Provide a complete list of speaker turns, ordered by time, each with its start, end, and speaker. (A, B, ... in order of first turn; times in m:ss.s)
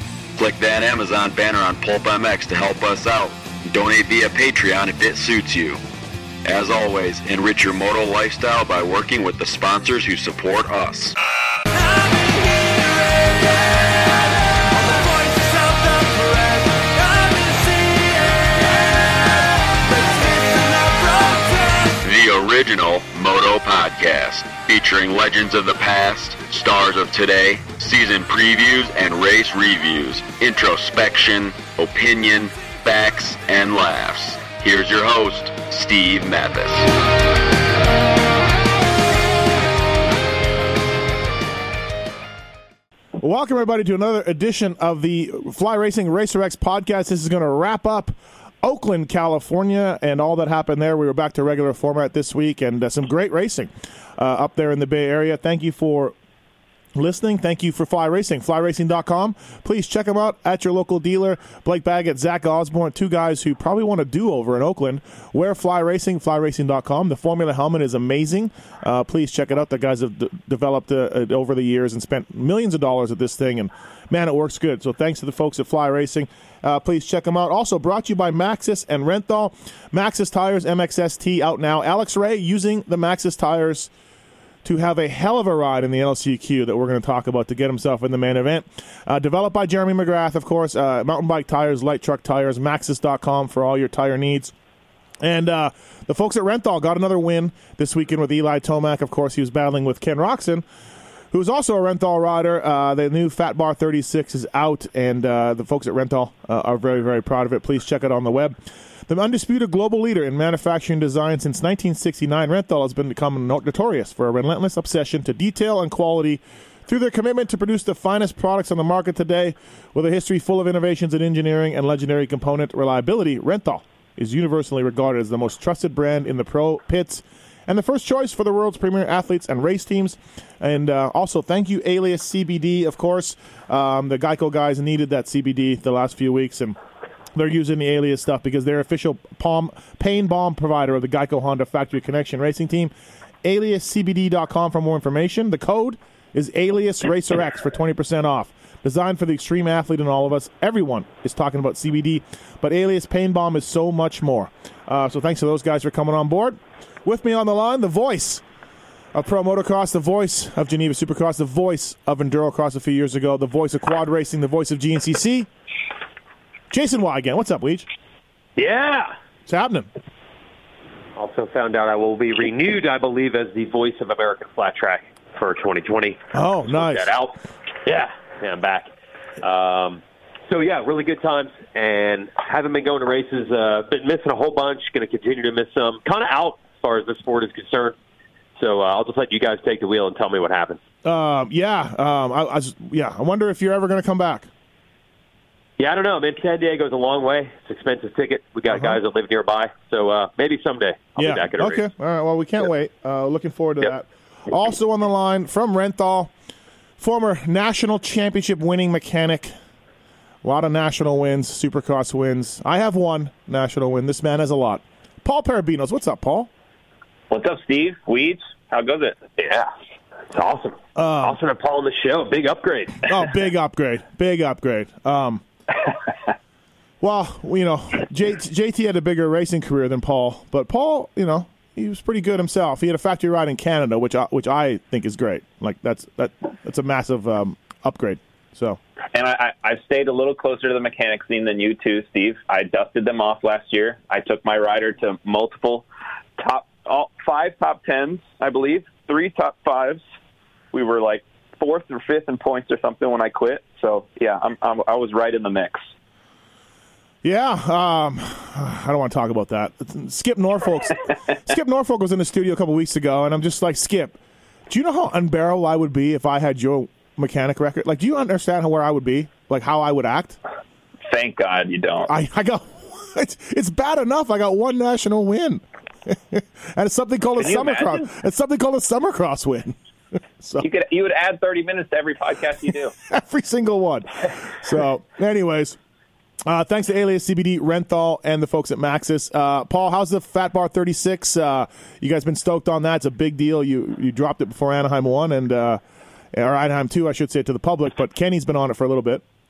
0:00.4-0:05.8 A
0:06.4-0:11.1 A
0:21.9-0:36.9 A
0:43.2-0:56.1 B
0:56.9-1:23.9 B
1:24.6-1:34.5 B
1:35.2-1:40.6 B
1:41.3-1:48.6 B
1:49.1-2:16.8 B
2:17.3-2:22.9 B
2:23.4-2:38.4 B
2:39.1-2:45.5 B
2:46.7-2:47.9 B
2:48.6-2:49.1 C
2:49.5-2:49.9 B
2:51.2-2:58.9 C
2:56.3-2:57.1 B
2:59.4-3:08.0 C
3:08.6-3:10.8 C
3:11.0-3:14.5 B
3:15.8-3:21.9 C
3:21.2-3:26.3 B
3:27.0-3:29.5 B
3:30.4-3:36.5 B
3:37.3-3:39.2 D
3:39.4-3:39.7 C
3:40.3-3:43.1 C
3:41.0-3:41.4 B
3:43.1-3:45.4 B
3:47.0-3:58.8 B
3:59.1-4:05.8 D
4:06.4-4:10.0 D
4:10.7-4:15.9 D
4:17.2-4:30.4 B
4:31.1-4:32.1 D
4:32.1-4:39.8 B
4:37.4-4:38.1 D
4:40.4-4:40.7 B
4:40.6-4:42.9 D
4:43.1-4:45.8 B
4:46.4-4:55.8 B
4:56.3-4:59.2 B